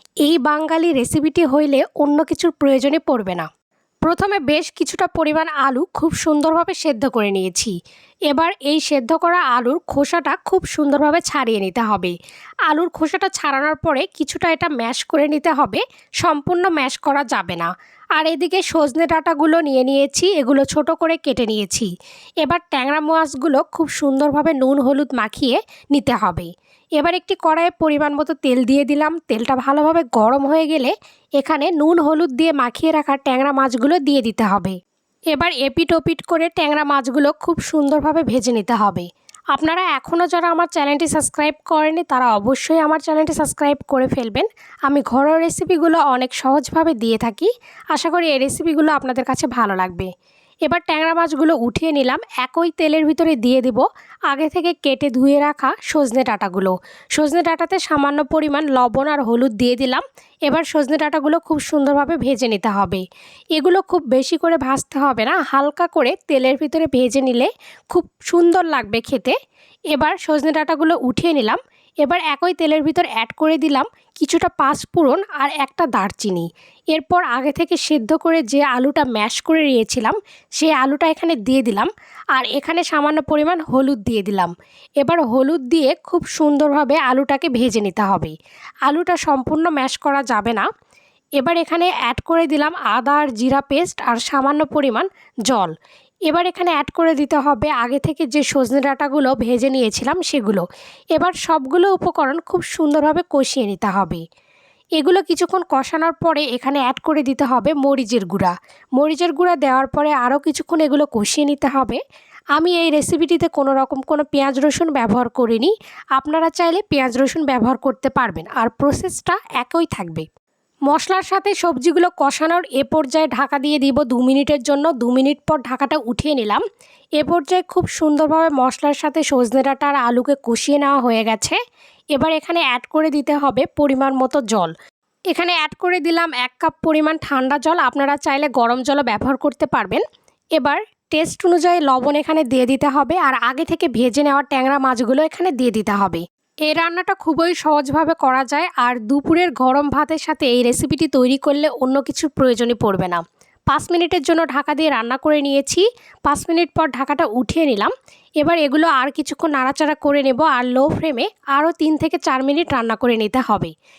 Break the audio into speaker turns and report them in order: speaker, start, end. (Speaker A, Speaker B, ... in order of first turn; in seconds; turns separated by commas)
Speaker A: 0.2-3.5, Speaker A: 4.1-7.7, Speaker A: 8.3-12.1, Speaker A: 12.7-21.9, Speaker A: 22.4-34.8, Speaker A: 35.3-50.1, Speaker A: 50.7-63.0, Speaker A: 63.5-69.4, Speaker A: 69.9-88.3, Speaker A: 88.9-90.7, Speaker A: 91.4-95.7, Speaker A: 96.3-100.6, Speaker A: 101.2-104.2, Speaker A: 105.0-112.0, Speaker A: 112.6-120.3, Speaker A: 120.9-126.6, Speaker A: 127.2-131.6, Speaker A: 132.2-134.7, Speaker A: 135.3-140.0, Speaker A: 140.6-163.7